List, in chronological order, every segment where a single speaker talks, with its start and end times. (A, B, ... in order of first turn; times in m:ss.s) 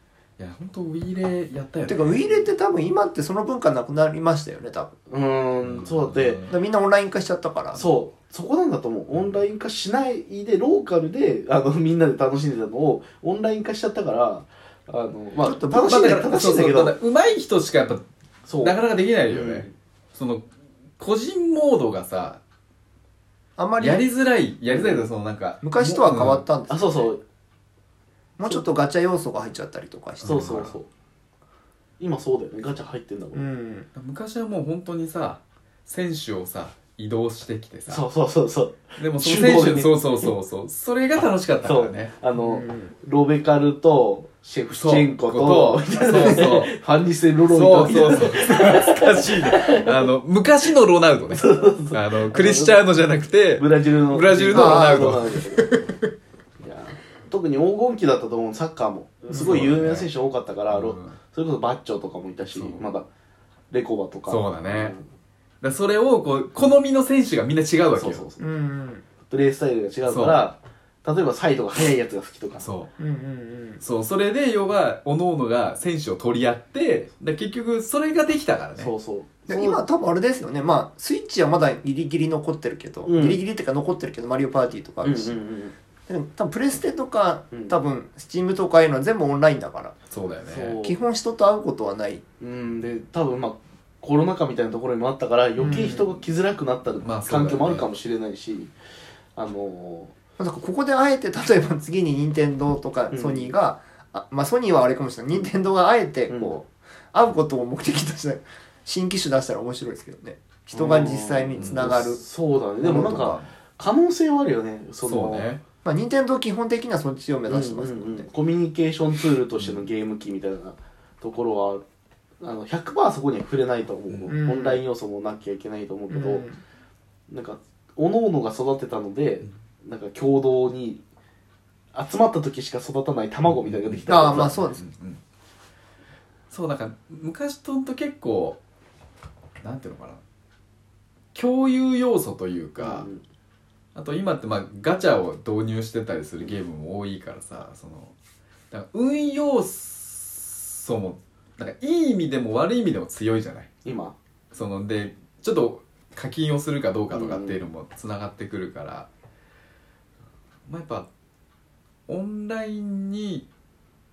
0:00.4-0:02.4 A
0:01.9-0:04.9 B
0:05.1-0:06.4 C
0:05.6-0:06.6 A
0:06.5-0:07.8 B
0:07.7-0:17.0 C
0:15.4-0:16.3 B
0:15.8-0:18.0 A
0:18.5-0:19.7 C
0:18.6-0:22.4 A
0:23.6-0:24.0 B
0:23.8-0:26.4 A
0:24.7-0:25.1 C
0:25.6-0:27.1 B
0:26.7-0:27.2 C
0:28.4-0:30.6 B
0:30.2-0:30.8 A
0:30.2-0:30.9 C
0:32.0-0:33.5 C
0:33.3-0:33.9 B
0:33.9-0:38.0 A
0:37.9-0:40.3 C
0:39.0-0:42.1 A
0:41.6-0:50.1 C
0:42.4-0:42.9 B
0:44.7-0:46.7 A
0:47.5-0:56.1 A
0:51.2-0:52.8 C
0:53.6-0:55.8 C
0:54.5-0:55.1 B
0:56.6-1:03.0 C
0:59.3-1:00.1 A
1:00.7-1:01.2 A
1:02.5-1:02.9 A
1:03.7-1:05.0 C
1:04.3-1:05.0 A
1:05.6-1:08.2 A
1:07.9-1:08.4 C
1:08.4-1:09.0 B
1:09.3-1:12.7 C
1:10.0-1:10.4 A
1:12.6-1:12.9 A
1:13.0-1:13.8 B
1:13.8-1:18.9 A
1:18.8-1:19.8 C
1:19.5-1:25.4 B
1:23.0-1:23.4 C
1:25.0-1:25.7 C
1:26.1-1:29.9 B
1:30.1-1:30.8 A
1:30.4-1:31.0 C
1:30.8-1:32.2 B
1:32.4-1:38.7 C
1:35.6-1:36.1 B
1:37.0-1:37.9 A
1:39.4-1:40.1 C
1:40.4-1:52.2 B
1:43.1-1:43.5 C
1:50.7-1:55.5 C
1:51.6-1:51.9 A
1:52.8-1:53.4 B
1:52.8-1:53.4 A
1:55.0-1:55.6 A
1:55.8-1:58.3 B
1:57.5-2:01.8 C
1:59.6-1:59.9 A
2:02.4-2:06.4 C
2:04.1-2:04.4 A
2:04.3-2:04.8 B
2:06.1-2:06.6 B
2:07.3-2:11.0 C
2:11.9-2:14.6 C
2:13.5-2:15.2 A
2:14.1-2:14.8 B
2:16.5-2:18.6 A
2:19.6-2:20.2 A
2:21.3-2:23.1 A
2:22.8-2:23.2 C
2:23.9-2:28.1 A
2:28.7-2:33.7 A
2:33.8-2:34.2 C
2:34.5-2:39.1 A
2:37.1-2:37.6 C
2:40.7-2:41.1 A
2:42.1-2:43.5 A